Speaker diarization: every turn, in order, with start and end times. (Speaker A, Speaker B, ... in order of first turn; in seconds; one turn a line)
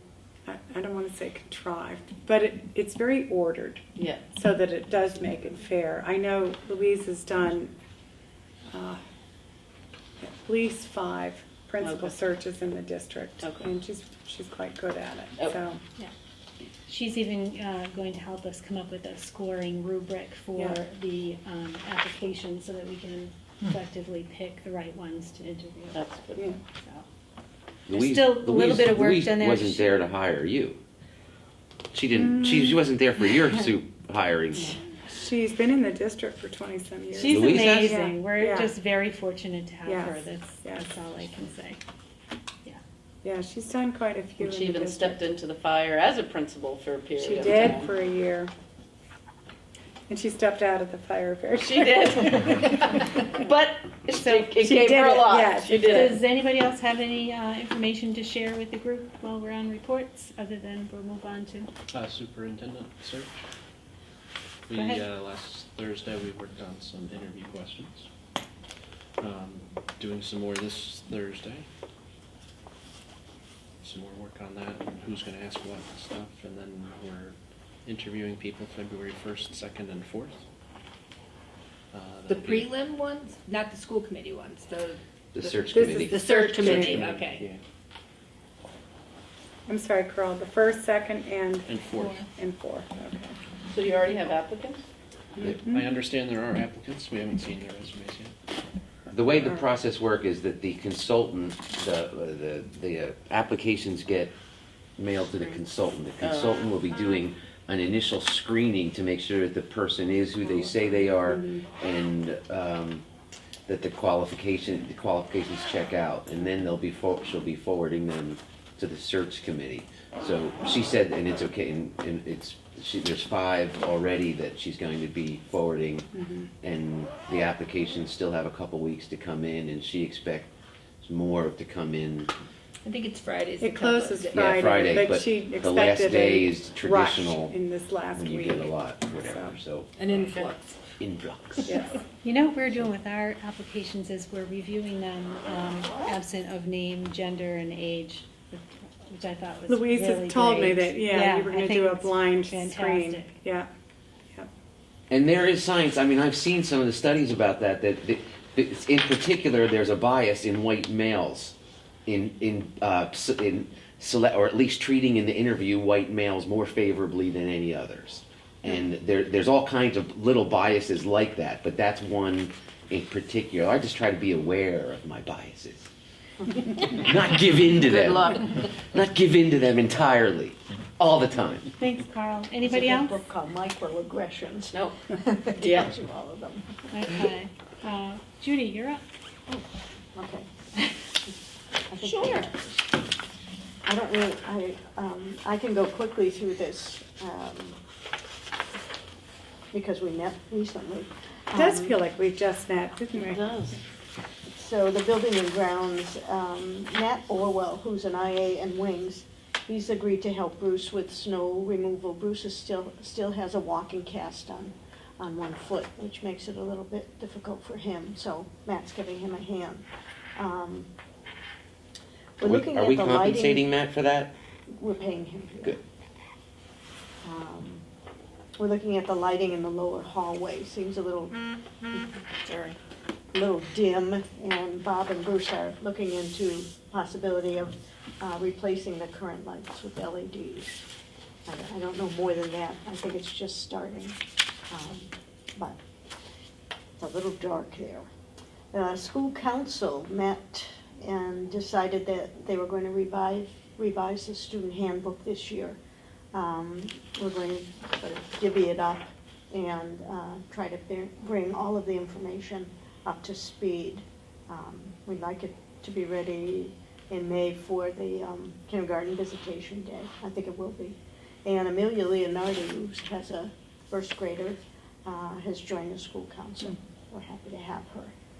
Speaker A: 0.4-7.7
Speaker B: 4.0-4.3
Speaker A: 8.7-9.0
Speaker A: 10.2-15.8
Speaker B: 11.8-12.2
Speaker B: 13.4-13.7
Speaker C: 16.9-26.0
Speaker A: 20.5-20.8
Speaker B: 25.9-26.5
Speaker C: 26.6-27.0
Speaker D: 27.9-30.8
Speaker C: 27.9-30.1
Speaker D: 31.9-34.8
Speaker A: 32.3-32.7
Speaker A: 35.1-38.7
Speaker C: 37.1-41.8
Speaker D: 37.3-38.0
Speaker A: 39.9-40.8
Speaker A: 43.2-45.2
Speaker B: 44.4-48.0
Speaker A: 47.2-48.5
Speaker A: 50.1-52.4
Speaker B: 51.6-56.2
Speaker C: 54.1-54.6
Speaker A: 54.6-56.1
Speaker C: 55.8-61.7
Speaker E: 61.9-63.4
Speaker E: 64.7-68.1
Speaker C: 64.7-65.0
Speaker E: 69.2-71.6
Speaker E: 73.8-77.3
Speaker E: 77.8-80.4
Speaker E: 81.9-82.7
Speaker F: 82.3-87.4
Speaker D: 85.3-86.2
Speaker A: 85.9-87.0
Speaker E: 86.8-87.6
Speaker A: 89.7-91.7
Speaker E: 91.7-92.3
Speaker C: 92.0-92.2
Speaker A: 92.3-93.3
Speaker B: 93.7-94.8
Speaker A: 95.3-95.9
Speaker E: 95.4-98.3
Speaker D: 99.1-104.3
Speaker D: 105.0-113.0
Speaker B: 106.2-106.6
Speaker A: 111.3-111.6
Speaker D: 113.7-126.1
Speaker A: 126.1-126.5
Speaker D: 126.6-130.5
Speaker D: 131.0-132.3
Speaker F: 132.8-135.1
Speaker A: 133.6-139.6
Speaker D: 134.3-137.6
Speaker D: 138.1-139.9
Speaker F: 140.0-140.6
Speaker B: 140.2-140.5
Speaker D: 141.0-141.7
Speaker A: 141.7-141.9
Speaker C: 142.2-153.4
Speaker A: 149.7-153.7
Speaker D: 155.1-161.5
Speaker D: 162.1-175.9
Speaker D: 176.7-181.7
Speaker B: 177.8-178.4
Speaker C: 181.8-183.2
Speaker G: 182.6-187.1
Speaker B: 184.7-185.0
Speaker B: 185.6-185.9
Speaker C: 186.9-189.0
Speaker G: 189.5-190.5
Speaker G: 191.9-192.8
Speaker G: 193.8-197.8
Speaker G: 199.7-202.0
Speaker A: 201.5-203.5
Speaker B: 203.1-203.7
Speaker G: 204.5-220.9
Speaker G: 222.4-223.7
Speaker D: 222.4-224.3
Speaker G: 224.7-225.8
Speaker G: 227.2-227.8
Speaker G: 228.6-231.4
Speaker G: 231.9-232.2
Speaker G: 233.3-240.8
Speaker G: 241.4-244.2
Speaker G: 244.7-245.8
Speaker G: 247.0-248.1
Speaker G: 248.7-255.8
Speaker G: 256.3-278.1